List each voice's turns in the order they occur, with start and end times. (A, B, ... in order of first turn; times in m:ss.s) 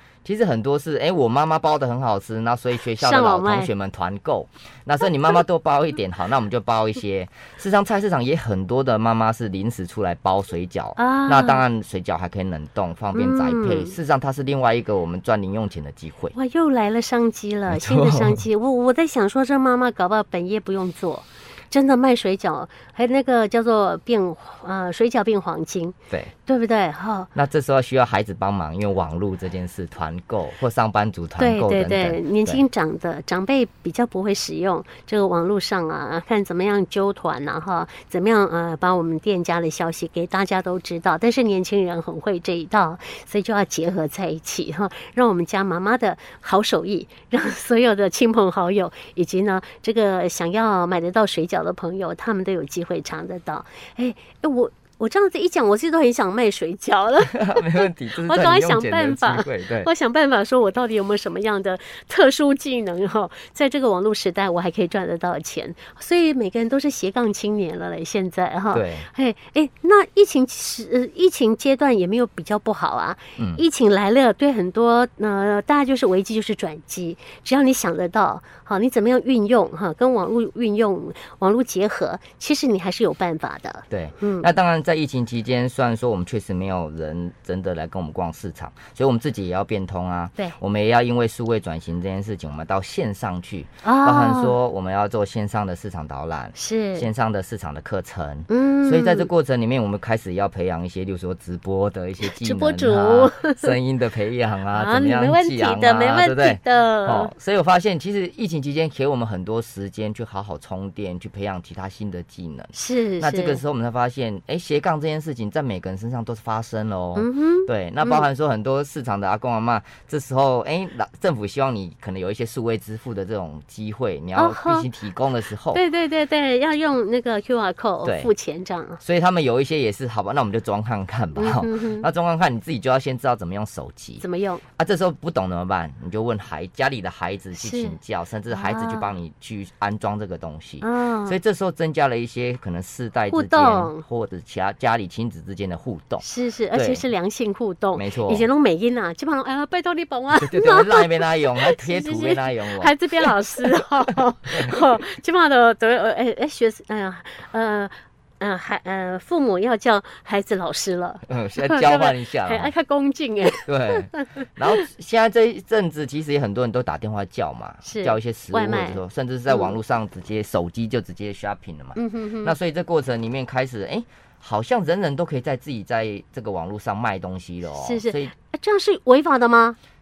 0:00.2-0:16.3 A
0:02.9-0:03.7 B
0:11.0-0:11.6 B
0:13.1-0:13.9 B
0:16.3-0:25.9 B
0:17.7-0:18.4 A
0:26.4-0:27.3 B
0:27.3-0:32.6 A
0:31.4-1:24.5 B
0:57.2-0:59.9 A
1:08.7-1:09.1 A
1:13.4-1:13.6 A
1:23.9-2:05.8 A
1:33.8-1:34.6 B
1:36.6-1:37.1 B
1:38.5-1:39.3 B
1:42.2-1:43.7 B
1:44.7-1:47.3 B
1:52.7-1:53.6 B
1:57.2-1:58.3 B
2:04.4-2:04.9 B
2:05.7-2:09.0 B
2:08.0-2:08.3 A
2:09.0-2:14.2 A
2:11.4-2:12.1 B
2:14.2-2:14.6 B
2:14.8-2:27.0 A
2:17.5-2:18.0 B
2:18.5-2:19.1 B
2:20.8-2:21.4 B
2:23.3-2:24.0 B
2:26.2-2:44.4 B
2:27.9-2:28.5 A
2:30.3-2:33.8 A
2:34.5-2:34.7 A
2:41.3-2:42.7 A
2:43.6-2:58.3 A
2:47.8-2:49.8 B
2:52.0-2:52.6 B
2:57.7-2:59.8 B